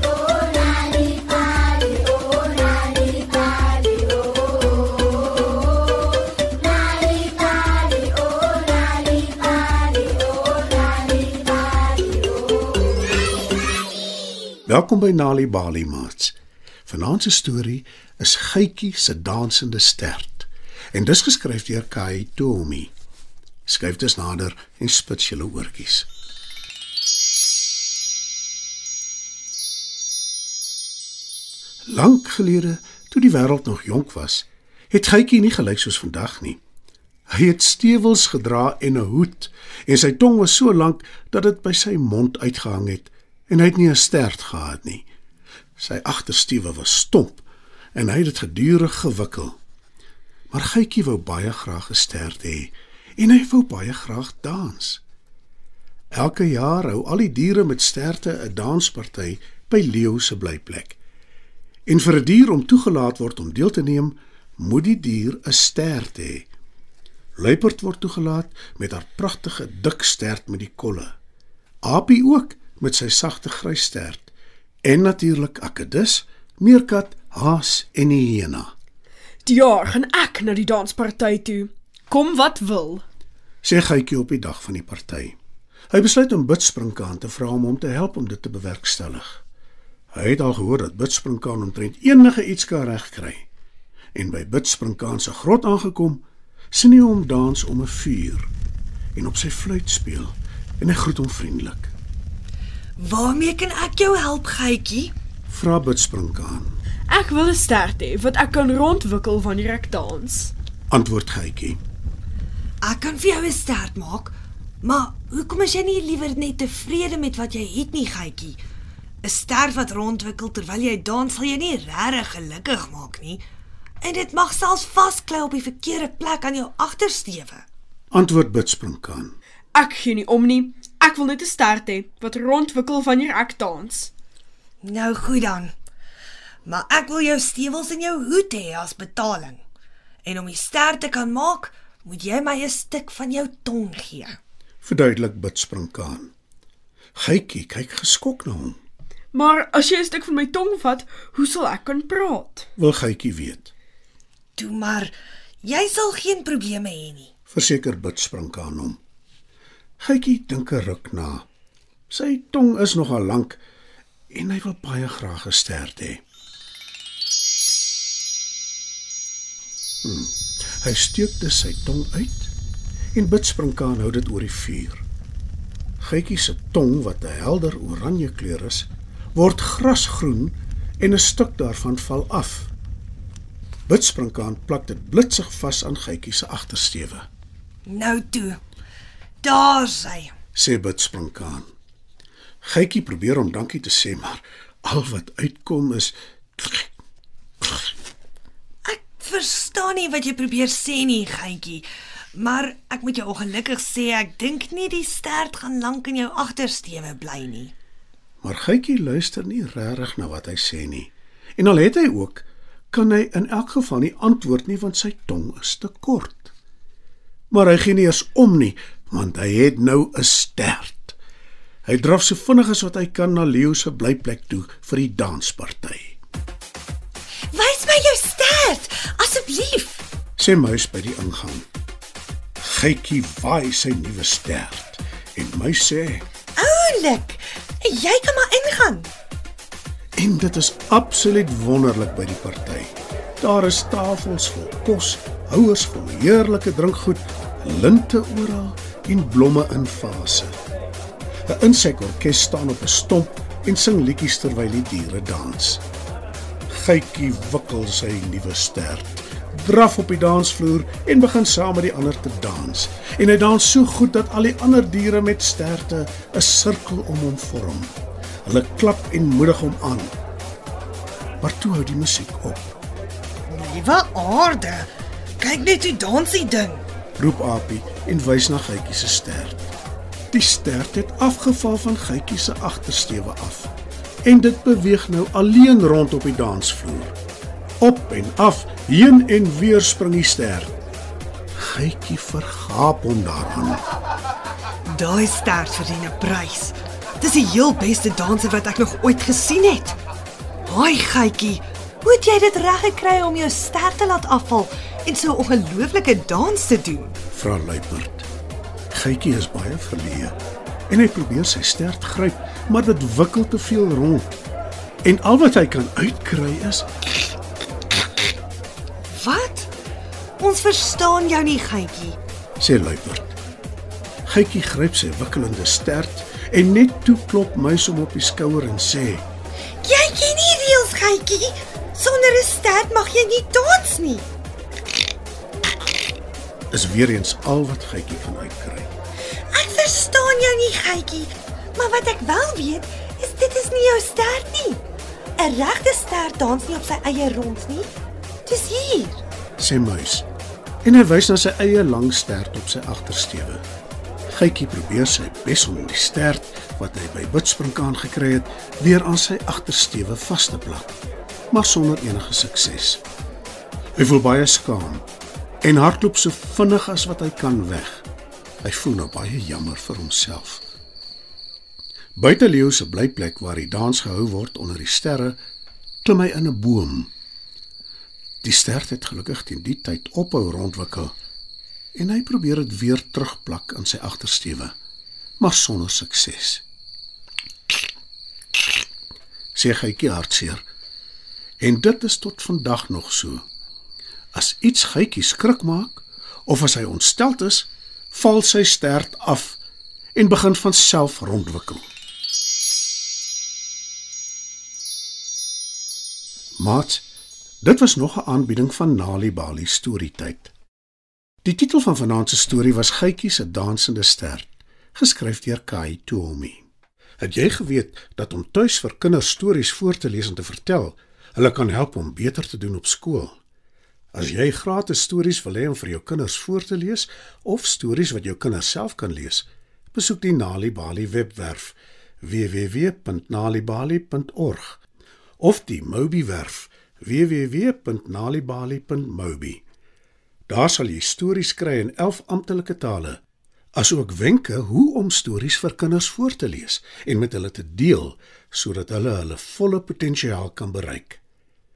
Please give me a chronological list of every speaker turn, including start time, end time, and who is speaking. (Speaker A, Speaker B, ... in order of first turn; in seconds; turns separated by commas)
Speaker A: 14.7-22.9, Speaker A: 23.6-26.1, Speaker A: 31.9-36.6, Speaker A: 37.3-45.1, Speaker A: 45.8-49.5, Speaker A: 50.5-55.0, Speaker A: 56.1-61.0, Speaker A: 61.9-66.5, Speaker A: 67.3-71.1, Speaker A: 71.8-74.3, Speaker A: 74.8-78.7, Speaker B: 79.4-83.0, Speaker A: 83.6-85.3, Speaker A: 85.9-89.4, Speaker A: 90.1-93.5, Speaker A: 94.1-98.5, Speaker A: 99.1-101.9, Speaker C: 103.0-105.1, Speaker A: 105.5-106.7, Speaker B: 107.1-110.5, Speaker A: 110.9-111.8, Speaker C: 112.8-118.6, Speaker C: 119.2-123.4, Speaker C: 124.0-127.6, Speaker A: 128.1-129.3, Speaker B: 129.7-134.1, Speaker C: 134.8-135.7, Speaker C: 136.6-139.6, Speaker C: 140.2-144.4, Speaker A: 144.8-146.3, Speaker A: 147.1-148.8, Speaker B: 149.3-152.7, Speaker A: 152.8-153.7, Speaker C: 154.6-157.3, Speaker A: 157.5-159.0, Speaker A: 160.0-161.5, Speaker A: 162.1-163.6, Speaker A: 164.3-166.2, Speaker A: 170.0-172.5, Speaker A: 173.1-175.0, Speaker A: 176.0-182.7, Speaker A: 183.9-187.2, Speaker C: 187.8-188.6, Speaker C: 189.4-190.3, Speaker A: 190.5-191.7, Speaker A: 192.6-196.9, Speaker C: 198.8-207.7, Speaker A: 208.4-216.5, Speaker A: 217.5-221.2, Speaker A: 221.8-226.2, Speaker C: 227.5-230.0, Speaker A: 230.4-231.7, Speaker A: 232.6-236.2, Speaker C: 236.6-239.1, Speaker A: 240.2-250.5, Speaker A: 251.4-255.8, Speaker A: 256.7-267.9, Speaker A: 268.4-270.1, Speaker A: 271.4-272.6, Speaker C: 273.5-276.8, Speaker A: 277.2-279.7, Speaker A: 280.3-283.7, Speaker A: 284.2-287.1, Speaker A: 287.8-290.7, Speaker A: 291.6-293.8, Speaker C: 294.8-300.0, Speaker C: 300.6-307.2, Speaker A: 307.3-308.3, Speaker A: 308.9-310.4, Speaker A: 310.9-314.4, Speaker A: 315.0-316.9, Speaker C: 319.1-319.7, Speaker C: 320.4-322.2, Speaker A: 322.6-323.4, Speaker A: 324.2-329.2, Speaker C: 329.8-334.2, Speaker A: 336.7-338.9, Speaker C: 339.5-344.8, Speaker C: 345.4-347.9, Speaker C: 348.4-349.2, Speaker A: 349.6-350.3, Speaker A: 350.8-353.6, Speaker A: 354.3-361.0, Speaker A: 361.5-363.0, Speaker A: 363.9-365.0, Speaker A: 365.6-368.1, Speaker A: 368.6-370.6, Speaker A: 372.1-375.4, Speaker A: 376.0-377.1, Speaker A: 378.4-381.1, Speaker A: 381.9-384.7, Speaker A: 385.4-386.6, Speaker A: 389.5-390.6, Speaker A: 391.6-393.4, Speaker A: 394.3-399.6, Speaker A: 400.1-401.8, Speaker A: 406.6-407.0, Speaker A: 407.6-410.5, Speaker A: 411.4-416.6, Speaker A: 417.2-423.4, Speaker A: 424.1-434.8, Speaker A: 435.4-439.6, Speaker A: 440.5-443.2, Speaker A: 443.8-451.2